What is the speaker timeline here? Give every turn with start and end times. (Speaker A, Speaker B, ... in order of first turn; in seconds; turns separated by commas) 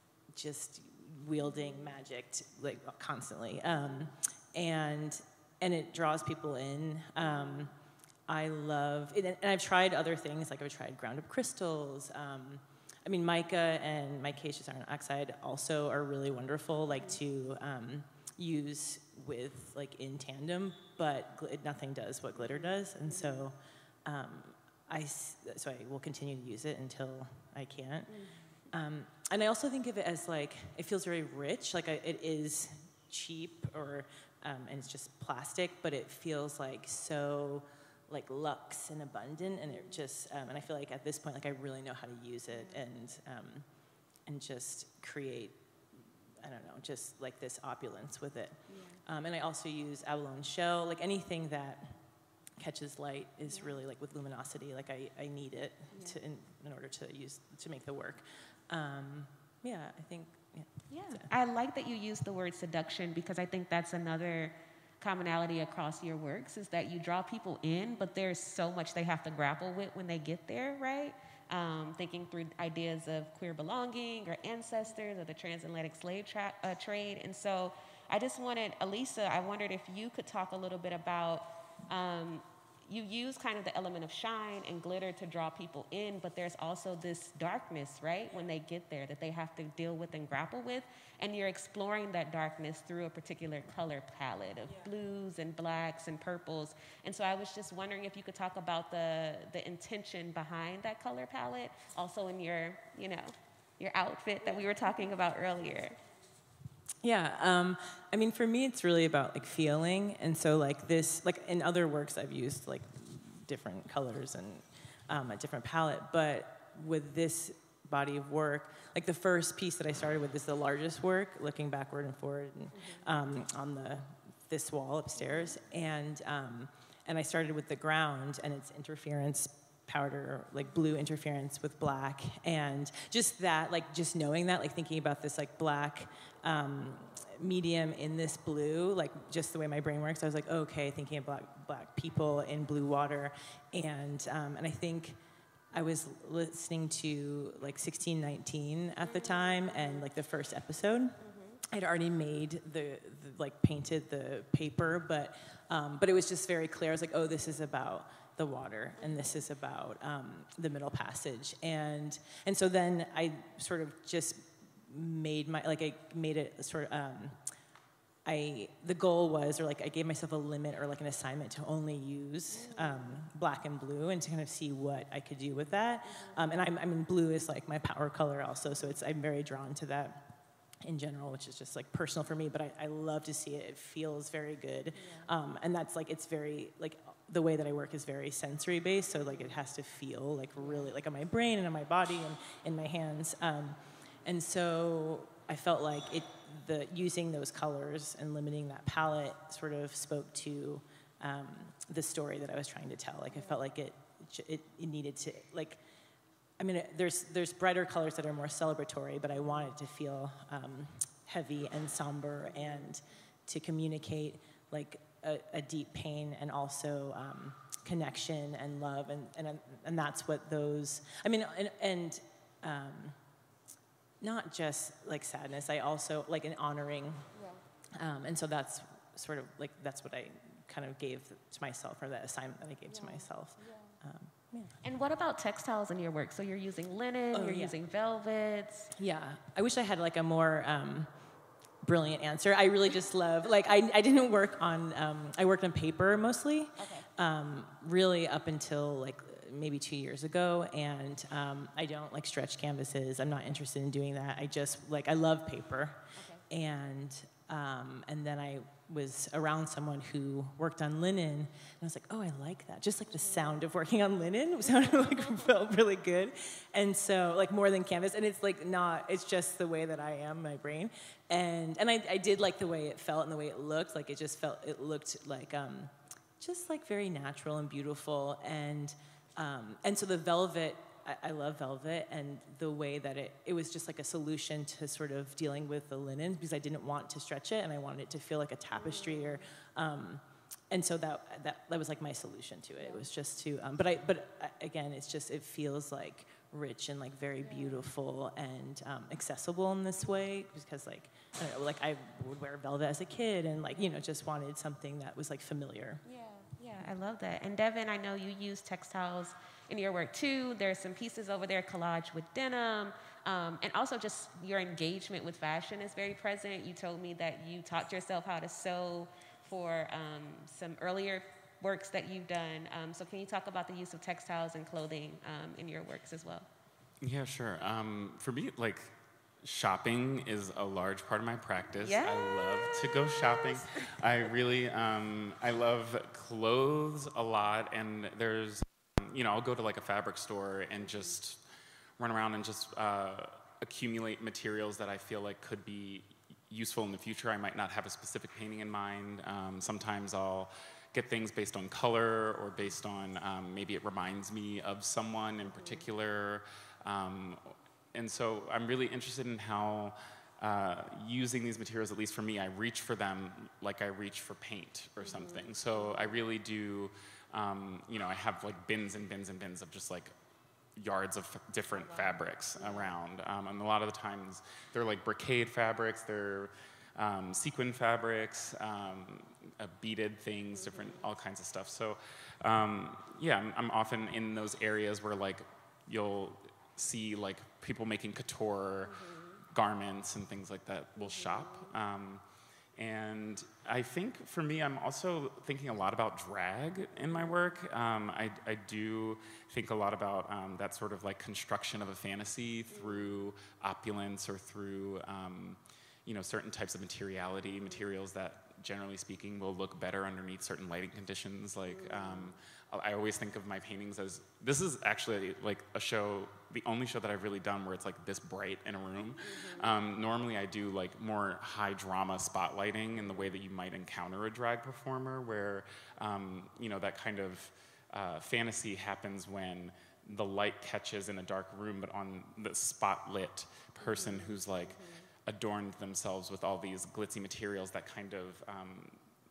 Speaker A: 0.3-7.7, Speaker B: 1.4-1.9, Speaker B: 7.2-7.6, Speaker A: 8.3-28.1, Speaker B: 16.9-17.2, Speaker B: 22.4-23.5, Speaker B: 28.1-28.4, Speaker A: 28.7-43.6, Speaker B: 42.5-42.8, Speaker A: 44.2-45.6, Speaker A: 46.4-52.0, Speaker B: 48.7-49.0, Speaker A: 52.6-61.3, Speaker B: 53.5-53.8, Speaker B: 55.9-56.2, Speaker B: 60.9-106.0, Speaker A: 107.0-145.2, Speaker B: 122.8-123.0, Speaker A: 145.7-167.4, Speaker B: 149.1-150.1, Speaker B: 151.2-151.6, Speaker B: 159.0-159.3, Speaker A: 168.2-180.2, Speaker B: 172.5-173.2, Speaker B: 176.0-176.4, Speaker A: 180.8-205.8, Speaker B: 184.9-185.3, Speaker B: 189.3-189.6, Speaker B: 190.6-190.9, Speaker B: 203.3-203.6, Speaker A: 206.6-223.2, Speaker B: 209.4-209.7, Speaker B: 212.5-212.9, Speaker A: 224.2-227.3, Speaker B: 227.3-227.6, Speaker A: 227.9-234.7, Speaker B: 232.9-234.0, Speaker B: 234.8-238.9, Speaker A: 237.3-237.8, Speaker A: 238.9-241.1, Speaker A: 241.8-306.0, Speaker B: 246.8-247.1, Speaker B: 256.1-256.4, Speaker B: 288.8-289.4, Speaker B: 292.8-293.1, Speaker B: 297.4-297.9, Speaker B: 303.8-304.0, Speaker B: 306.0-326.5, Speaker C: 327.0-341.4, Speaker B: 331.8-332.5, Speaker C: 342.0-370.1, Speaker B: 365.0-366.0, Speaker C: 370.8-392.2, Speaker B: 372.6-372.9, Speaker B: 380.6-381.0, Speaker B: 388.9-389.4, Speaker B: 391.0-391.7, Speaker C: 392.8-439.0, Speaker B: 402.7-403.1, Speaker B: 411.7-412.3, Speaker B: 419.2-419.7, Speaker B: 433.8-435.1